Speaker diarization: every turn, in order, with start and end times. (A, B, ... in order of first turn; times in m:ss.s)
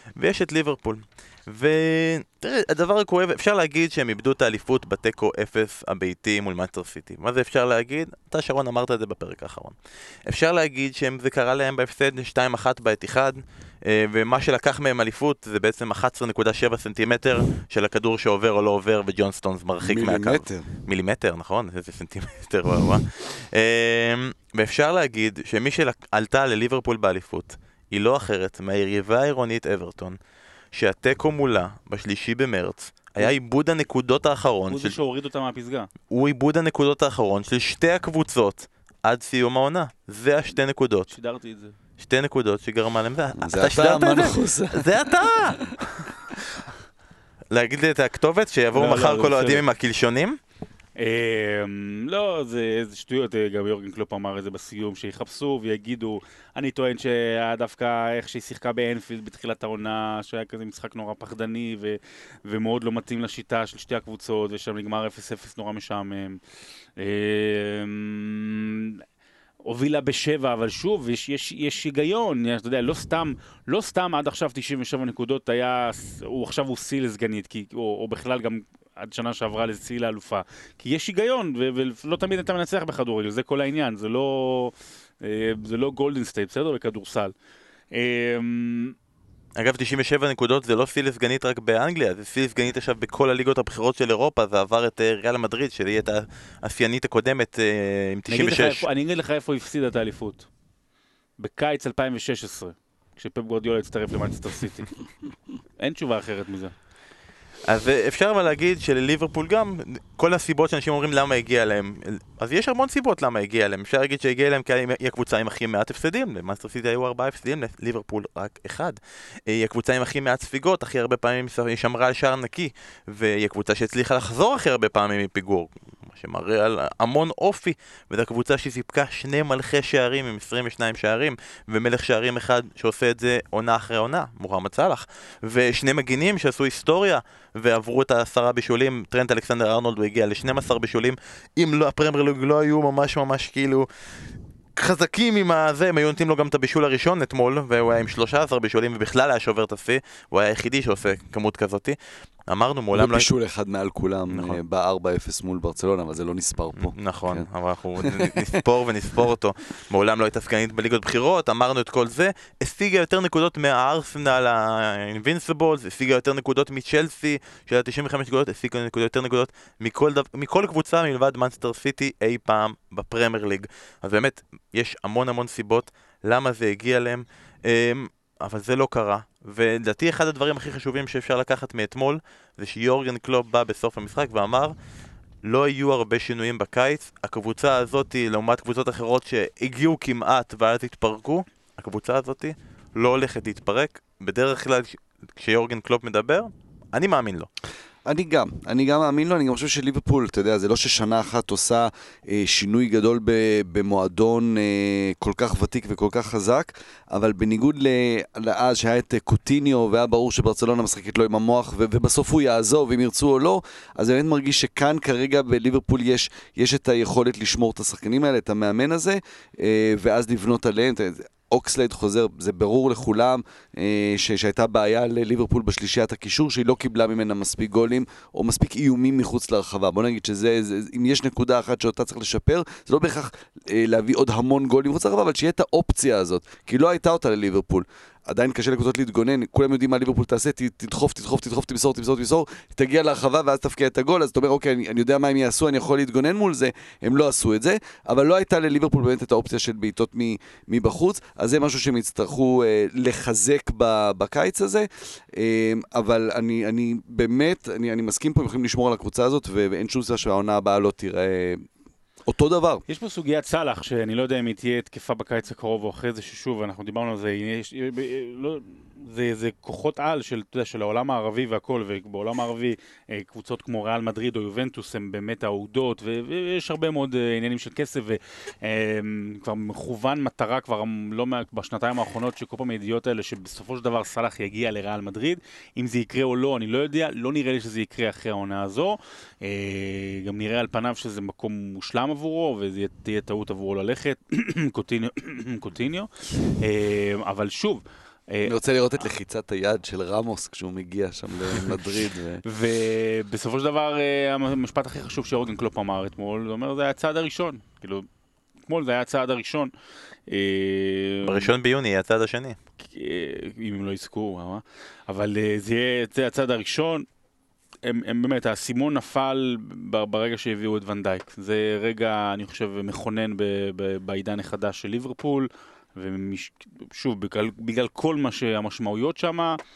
0:00.2-0:09.7 A
0:10.3-0:30.2 A
0:19.8-0:20.7 B
0:30.7-0:35.0 A
0:34.7-0:35.9 C
0:36.1-0:41.1 A
0:41.1-0:41.8 C
0:42.0-0:46.0 A
0:43.4-0:45.6 B
0:47.5-0:50.4 A
0:48.7-0:49.6 C
0:51.0-1:06.4 C
1:07.0-1:09.0 C
1:09.6-1:27.3 C
1:27.9-1:28.9 C
1:29.6-1:38.8 A
1:38.3-1:40.5 C
1:41.4-1:44.9 C
1:45.8-1:46.7 C
1:47.6-2:23.9 A
2:24.8-2:32.0 A
2:32.5-2:33.3 A
2:32.9-2:37.5 B
2:34.3-2:34.6 A
2:36.8-3:04.7 A
2:38.0-2:38.6 B
3:05.4-3:17.5 A
3:18.0-4:21.6 B
4:22.2-4:22.8 B
4:22.9-4:58.6 C
4:58.4-5:02.4 B
5:02.4-5:08.0 C
5:08.7-5:09.7 C
5:10.3-5:11.5 C
5:11.2-5:12.6 A
5:12.8-5:17.0 C
5:17.8-5:29.6 C